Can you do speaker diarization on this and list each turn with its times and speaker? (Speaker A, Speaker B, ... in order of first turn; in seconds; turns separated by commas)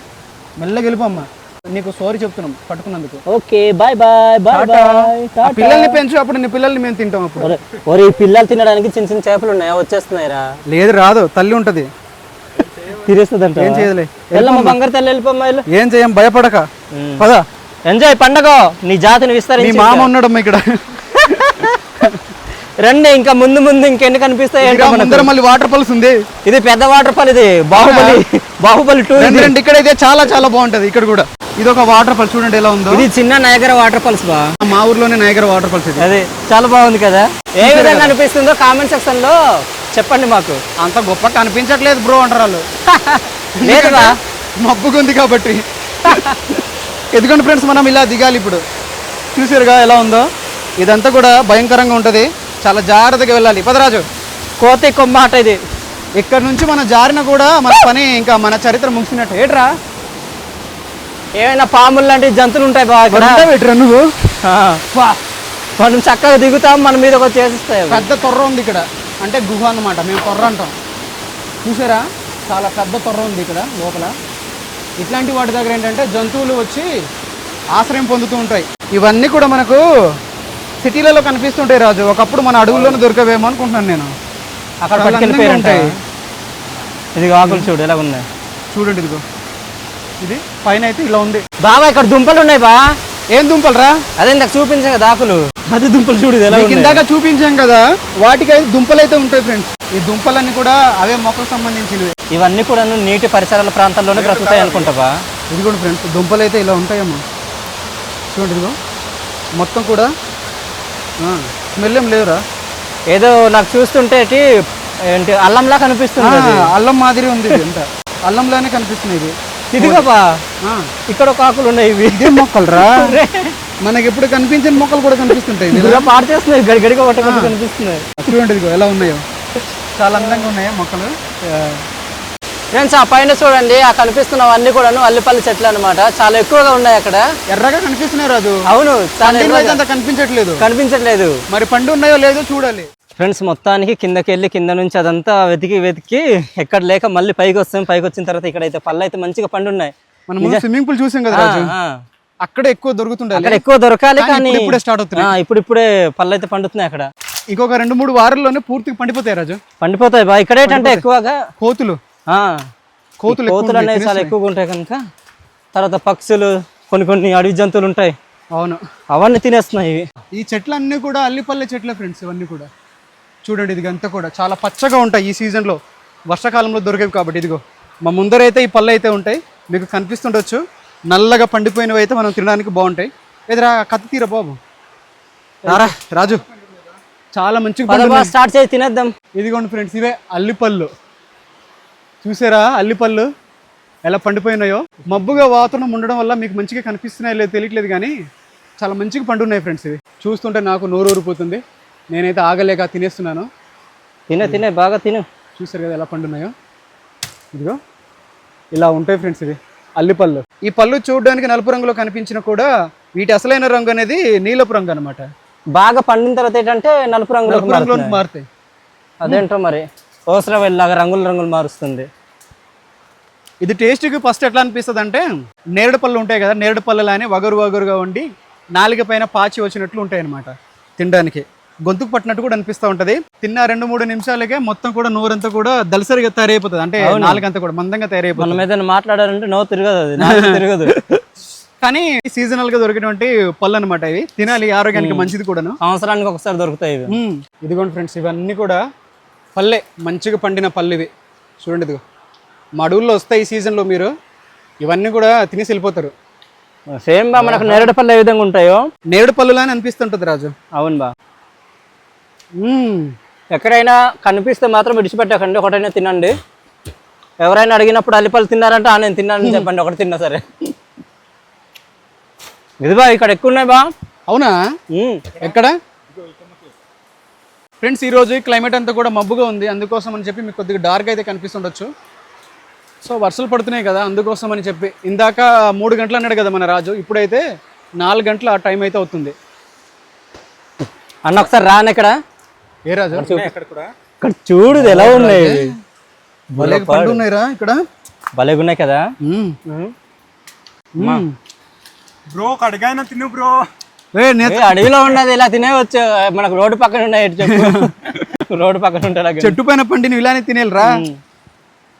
Speaker A: 0.6-3.2, Speaker B: 3.3-6.0, Speaker A: 4.5-7.5, Speaker B: 7.4-10.4, Speaker A: 10.7-11.9, Speaker B: 12.8-15.6, Speaker A: 13.6-14.8, Speaker A: 15.7-16.7, Speaker B: 16.9-17.3, Speaker B: 17.9-20.1, Speaker A: 19.6-22.2, Speaker B: 21.2-21.7, Speaker B: 22.8-25.3, Speaker A: 24.6-26.2, Speaker B: 26.5-29.5, Speaker A: 27.7-28.2, Speaker A: 29.2-33.1, Speaker B: 32.9-34.5, Speaker A: 34.6-36.1, Speaker B: 36.0-39.4, Speaker A: 37.6-38.1, Speaker B: 40.0-40.6, Speaker A: 40.8-42.6, Speaker B: 42.9-44.1, Speaker A: 43.6-46.2, Speaker B: 46.0-46.4, Speaker A: 47.1-48.6, Speaker A: 49.4-50.3, Speaker A: 50.8-54.0, Speaker B: 54.6-55.6, Speaker A: 56.2-59.7, Speaker B: 61.4-63.5, Speaker A: 63.1-64.1, Speaker B: 64.5-64.8, Speaker B: 65.8-68.1, Speaker A: 67.9-70.7, Speaker A: 71.7-74.1, Speaker A: 75.0-76.9, Speaker A: 77.7-79.8, Speaker A: 80.8-84.1, Speaker B: 82.7-83.0, Speaker B: 84.8-85.9, Speaker A: 84.9-85.9, Speaker B: 87.2-88.2, Speaker A: 87.4-87.7, Speaker A: 88.7-89.2, Speaker A: 90.2-91.4, Speaker B: 91.6-92.8, Speaker A: 93.3-94.0, Speaker B: 94.2-97.0, Speaker A: 96.5-102.1, Speaker B: 102.3-105.1, Speaker A: 104.3-104.7, Speaker A: 105.5-107.2, Speaker A: 108.3-108.8, Speaker A: 109.6-110.1, Speaker A: 111.2-112.4, Speaker B: 113.1-114.5, Speaker B: 115.1-116.7, Speaker A: 116.2-120.1, Speaker B: 119.7-120.2, Speaker B: 121.1-123.5, Speaker A: 122.1-123.2, Speaker A: 123.8-126.1, Speaker B: 125.7-128.2, Speaker A: 127.2-127.5, Speaker A: 128.2-129.2, Speaker A: 130.0-131.1, Speaker B: 131.5-131.8, Speaker B: 132.7-137.3, Speaker A: 137.5-138.6, Speaker B: 138.7-139.8, Speaker A: 139.2-140.7, Speaker B: 140.6-141.3, Speaker A: 141.5-142.9, Speaker B: 143.2-150.6, Speaker A: 150.3-151.7, Speaker B: 151.3-151.9, Speaker A: 152.4-153.6, Speaker B: 153.3-157.1, Speaker A: 154.2-155.3, Speaker A: 157.5-159.6, Speaker B: 159.8-161.4, Speaker A: 160.7-161.0, Speaker A: 161.6-162.0, Speaker B: 162.3-162.6, Speaker A: 163.2-164.3, Speaker B: 163.3-165.0, Speaker B: 165.7-168.2, Speaker A: 168.6-168.8, Speaker B: 169.1-170.1, Speaker A: 170.3-172.7, Speaker A: 173.5-184.6, Speaker B: 185.7-185.9, Speaker A: 185.7-186.4, Speaker A: 187.3-188.3, Speaker B: 187.9-189.1, Speaker A: 189.4-190.9, Speaker A: 192.2-193.3, Speaker A: 194.1-198.1, Speaker A: 198.8-201.6, Speaker A: 202.1-203.5, Speaker B: 204.3-205.3, Speaker A: 205.6-206.5, Speaker A: 208.8-215.3, Speaker B: 215.8-218.2, Speaker A: 217.5-218.4, Speaker B: 219.2-222.1, Speaker A: 223.6-238.6, Speaker B: 237.0-237.4, Speaker B: 238.4-240.9, Speaker A: 240.2-241.2, Speaker A: 241.8-245.8, Speaker B: 245.0-245.3, Speaker B: 245.8-247.1, Speaker A: 247.1-248.8, Speaker A: 249.6-251.1, Speaker A: 251.6-252.0, Speaker A: 252.8-254.1, Speaker A: 254.8-256.1, Speaker B: 256.9-258.8, Speaker A: 257.4-257.9, Speaker A: 259.1-260.5, Speaker B: 260.8-261.1, Speaker A: 262.6-263.1, Speaker B: 263.5-266.3, Speaker B: 267.4-270.6, Speaker A: 269.4-269.7, Speaker B: 272.8-273.9, Speaker A: 274.3-274.6, Speaker B: 274.9-275.2, Speaker A: 275.4-275.7, Speaker A: 277.8-281.9, Speaker A: 283.0-287.4, Speaker A: 288.0-289.4, Speaker B: 291.2-292.1, Speaker A: 292.9-293.3, Speaker B: 293.1-293.5, Speaker C: 293.3-293.9, Speaker B: 294.2-295.7, Speaker A: 294.7-295.7, Speaker B: 296.6-297.2, Speaker A: 296.6-297.8, Speaker B: 298.4-299.0, Speaker A: 299.2-299.6, Speaker B: 299.7-299.9, Speaker A: 301.0-301.4, Speaker B: 301.0-301.2, Speaker C: 302.3-303.6, Speaker A: 304.1-304.9, Speaker B: 304.4-309.6, Speaker A: 307.4-308.2, Speaker A: 309.4-311.1, Speaker B: 310.8-311.2